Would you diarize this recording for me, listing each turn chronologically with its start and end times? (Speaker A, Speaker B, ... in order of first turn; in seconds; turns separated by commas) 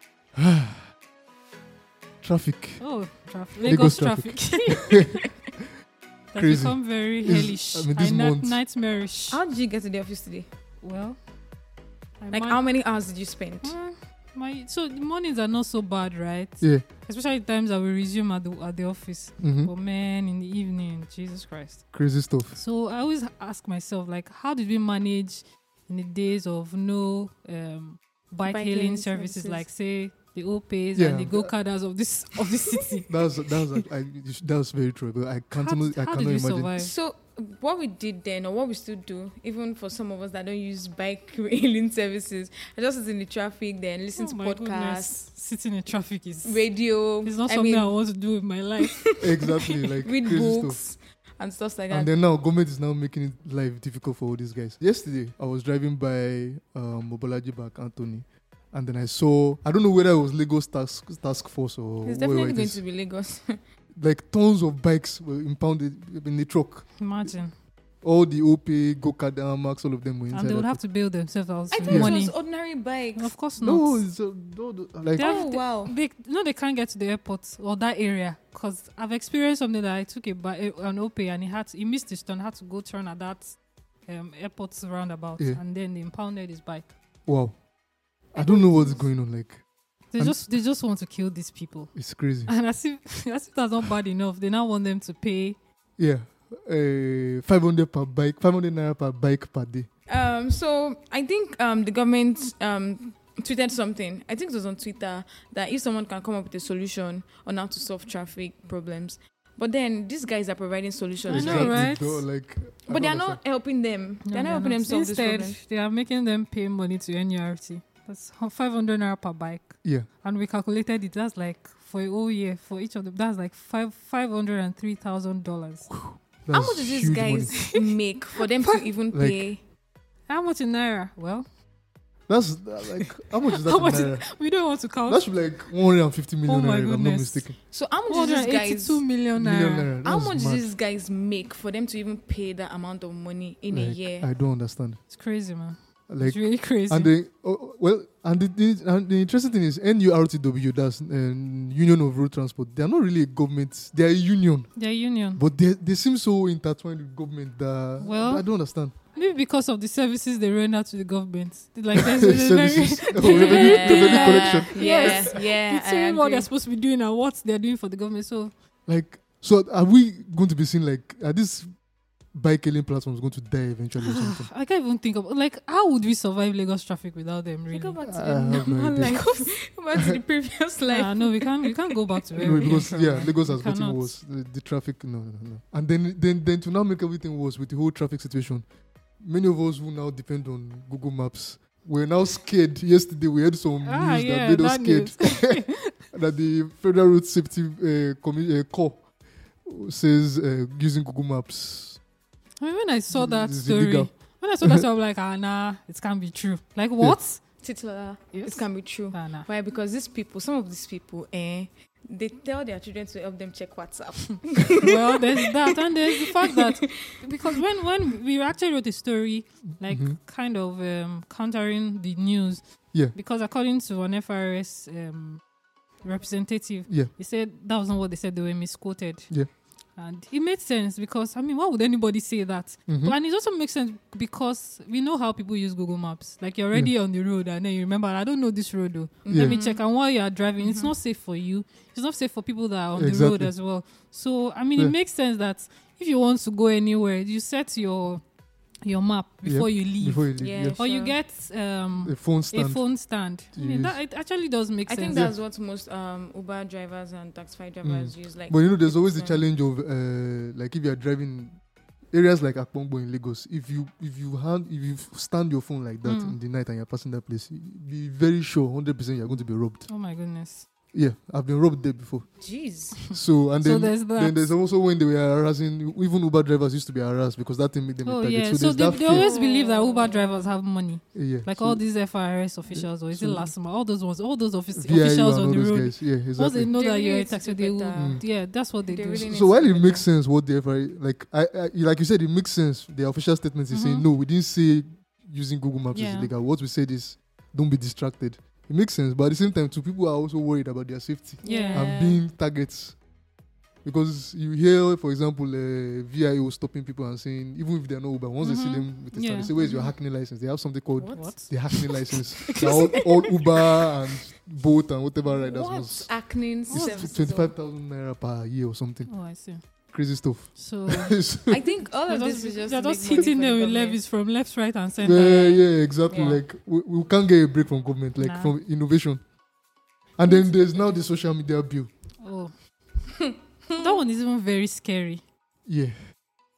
Speaker A: 0.4-0.9, Speaker A: 2.2-2.9, Speaker B: 2.8-5.3, Speaker A: 3.6-5.0, Speaker B: 6.3-9.4, Speaker A: 6.4-8.6, Speaker C: 9.3-10.5, Speaker B: 10.8-11.2, Speaker B: 12.2-12.8, Speaker C: 12.3-13.8, Speaker B: 13.6-33.3, Speaker A: 16.6-16.9, Speaker A: 19.4-19.7, Speaker A: 21.9-22.6, Speaker C: 28.4-29.7, Speaker A: 30.9-31.5, Speaker A: 33.1-36.8, Speaker B: 35.5-36.9, Speaker C: 36.8-45.2, Speaker B: 44.1-49.1, Speaker C: 46.4-48.0, Speaker C: 48.8-52.1, Speaker A: 49.2-50.8, Speaker A: 51.9-62.8, Speaker C: 62.0-63.6, Speaker A: 64.0-67.3, Speaker B: 67.0-67.5, Speaker A: 68.0-70.8, Speaker B: 70.3-72.4, Speaker C: 71.7-73.4, Speaker A: 71.8-72.2, Speaker B: 73.2-74.1, Speaker A: 73.6-75.3, Speaker B: 75.2-86.9, Speaker C: 75.2-75.9, Speaker A: 87.3-87.6, Speaker A: 88.3-89.6, Speaker B: 88.4-89.1, Speaker B: 90.1-95.6, Speaker A: 92.0-92.5, Speaker A: 96.0-99.9, Speaker C: 100.1-111.8, Speaker B: 111.3-112.3, Speaker A: 111.3-113.4, Speaker C: 112.8-115.6, Speaker B: 114.2-126.0, Speaker A: 119.8-120.1, Speaker A: 126.0-127.6, Speaker C: 126.5-129.6, Speaker B: 127.5-128.0, Speaker B: 128.6-128.9, Speaker A: 129.1-129.5, Speaker B: 130.3-131.5, Speaker A: 132.3-134.4, Speaker B: 133.4-135.6, Speaker A: 135.0-137.6, Speaker B: 136.4-139.9, Speaker C: 137.6-139.1, Speaker A: 139.3-140.7, Speaker C: 140.0-144.3, Speaker A: 143.7-145.1, Speaker B: 145.0-147.1, Speaker A: 146.1-158.9, Speaker B: 154.8-155.4, Speaker B: 158.0-158.5, Speaker B: 159.1-168.5, Speaker A: 161.9-165.3, Speaker C: 163.2-166.5, Speaker A: 168.9-171.7, Speaker A: 172.3-174.5, Speaker B: 174.0-178.0, Speaker C: 177.7-182.8, Speaker A: 178.0-179.4, Speaker B: 180.8-184.2, Speaker A: 182.4-188.7, Speaker A: 189.2-199.1, Speaker B: 193.8-196.1, Speaker A: 199.6-202.0, Speaker B: 202.6-207.5, Speaker A: 203.1-204.8, Speaker C: 207.6-217.6, Speaker B: 208.3-209.5, Speaker B: 214.8-225.4, Speaker A: 219.8-220.2, Speaker B: 226.0-229.4, Speaker B: 229.9-248.2, Speaker A: 232.9-233.2, Speaker C: 239.2-239.8, Speaker A: 239.3-239.6, Speaker C: 240.6-240.9, Speaker A: 242.9-243.6, Speaker B: 248.8-255.3, Speaker A: 249.4-250.8, Speaker C: 250.4-251.2, Speaker A: 252.0-253.0, Speaker A: 253.5-254.0, Speaker C: 254.9-259.5, Speaker A: 257.8-261.6, Speaker A: 262.1-269.9, Speaker B: 266.0-266.4, Speaker B: 269.9-270.7, Speaker A: 270.9-272.3, Speaker C: 272.4-273.1, Speaker B: 273.1-274.6, Speaker A: 273.1-279.3, Speaker B: 278.0-289.4, Speaker C: 278.9-280.5, Speaker A: 281.1-281.9, Speaker A: 282.7-283.5, Speaker A: 284.7-286.7, Speaker C: 286.7-288.2, Speaker A: 287.9-288.3, Speaker C: 288.8-290.1, Speaker A: 289.2-303.0, Speaker B: 293.7-294.1, Speaker B: 295.9-296.3, Speaker C: 301.4-302.2, Speaker B: 301.4-301.9, Speaker A: 303.8-321.7, Speaker B: 308.4-309.6, Speaker C: 309.6-310.0, Speaker C: 311.0-311.4, Speaker B: 311.1-313.7, Speaker C: 315.2-317.6, Speaker B: 316.7-317.2, Speaker B: 319.1-319.7, Speaker B: 320.6-321.2, Speaker C: 321.5-324.0, Speaker B: 321.9-326.4, Speaker A: 325.0-329.2, Speaker C: 326.1-326.4, Speaker B: 328.1-328.6, Speaker A: 330.2-331.9, Speaker B: 332.2-332.5, Speaker C: 333.3-333.8, Speaker B: 333.7-335.2, Speaker A: 335.7-335.9